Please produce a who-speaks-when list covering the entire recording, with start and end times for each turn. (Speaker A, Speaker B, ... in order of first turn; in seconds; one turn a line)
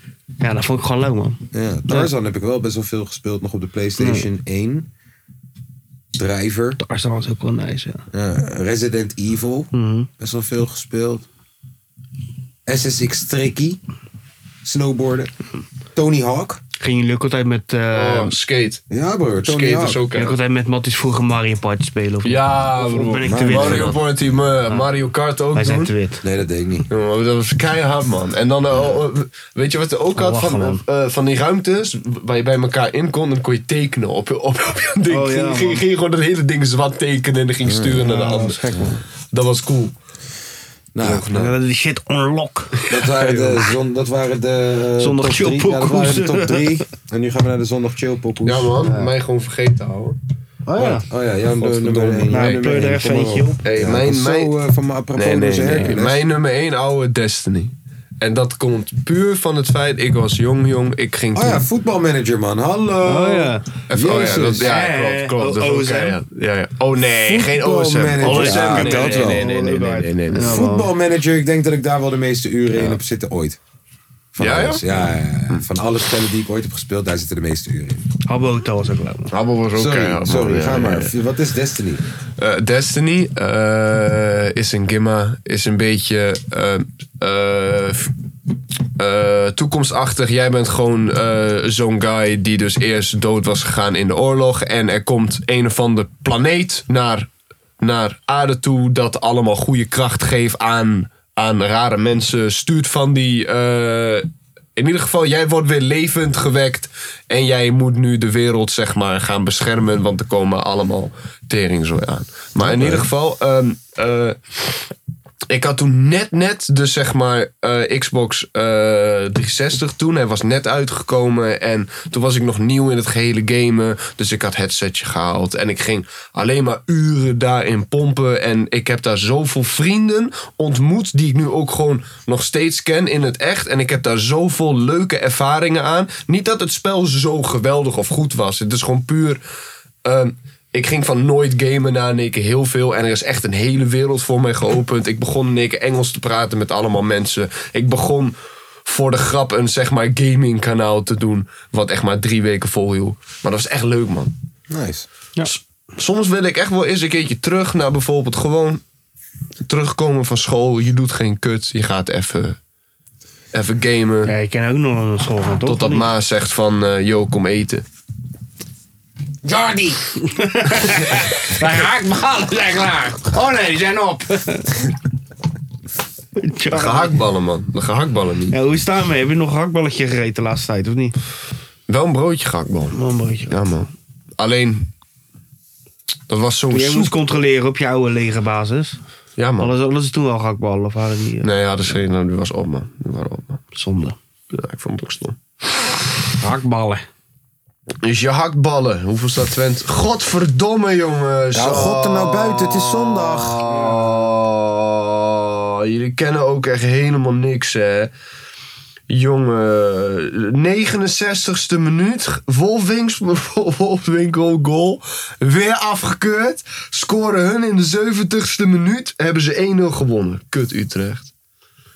Speaker A: 0.4-2.1
Speaker B: 1.5-4.9
Speaker A: 4.0-4.3
Speaker B: 6.2-6.8
Speaker A: 6.8-8.1
Speaker B: 8.1-11.3
Speaker A: 9.7-10.1
Speaker B: 12.7-13.8
Speaker B: 14.6-15.3
Speaker B: 15.9-16.6
Speaker A: 16.8-18.4
Speaker C: 17.9-18.8
Speaker B: 18.9-20.0
Speaker C: 19.4-20.4
Speaker A: 20.1-24.0
Speaker C: 22.2-25.9
Speaker B: 23.2-24.0
Speaker A: 25.6-26.2
Speaker B: 26.2-26.9
Speaker C: 26.9-38.6
Speaker A: 30.2-30.8
Speaker A: 35.1-35.8
Speaker B: 37.6-38.1
Speaker A: 38.0-39.0
Speaker C: 39.3-39.9
Speaker B: 41.0-41.3
Speaker C: 41.0-41.5
Speaker A: 41.3-42.8
Speaker B: 42.9-48.8
Speaker C: 43.2-43.5
Speaker A: 45.0-46.6
Speaker C: 48.5-50.2
Speaker A: 50.7-51.0
Speaker B: 50.8-56.2
Speaker C: 51.5-52.6
Speaker A: 52.3-53.6
Speaker C: 53.6-54.5
Speaker C: 55.2-61.6
Speaker B: 61.4-64.7
Speaker A: 63.0-63.6
Speaker C: 63.9-70.6
Speaker A: 64.3-66.2
Speaker B: 67.2-69.5
Speaker A: 68.2-70.9
Speaker B: 70.4-73.6
Speaker B: 74.3-78.0
Speaker C: 74.4-74.9
Speaker A: 78.3-79.3
Speaker C: 79.3-81.1
Speaker B: 79.7-82.0
Speaker C: 82.4-88.1
Speaker C: 89.0-97.3
Speaker C: 97.8-114.4
Speaker B: 112.6-113.1
Speaker C: 115.5-139.4
Speaker C: 140.1-148.3
Speaker C: 148.9-154.3
Speaker B: 154.7-155.1
Speaker C: 155.4-158.8
Speaker C: 159.6-162.6
Speaker C: 163.5-164.3
Speaker A: 164.3-166.1
Speaker C: 165.6-167.8
Speaker B: 169.4-170.0
Speaker A: 170.4-174.6
Speaker A: 176.4-177.2
Speaker C: 176.7-178.6
Speaker A: 178.5-181.1
Speaker C: 181.9-182.9
Speaker A: 182.9-183.5
Speaker C: 183.5-184.9
Speaker C: 186.3-187.1
Speaker A: 186.7-189.0
Speaker C: 189.4-189.7
Speaker A: 189.6-191.5
Speaker C: 191.4-193.6
Speaker A: 193.7-194.2
Speaker C: 194.5-195.4
Speaker A: 196.4-197.1
Speaker C: 198.0-208.1
Speaker B: 201.5-203.7
Speaker C: 209.1-221.3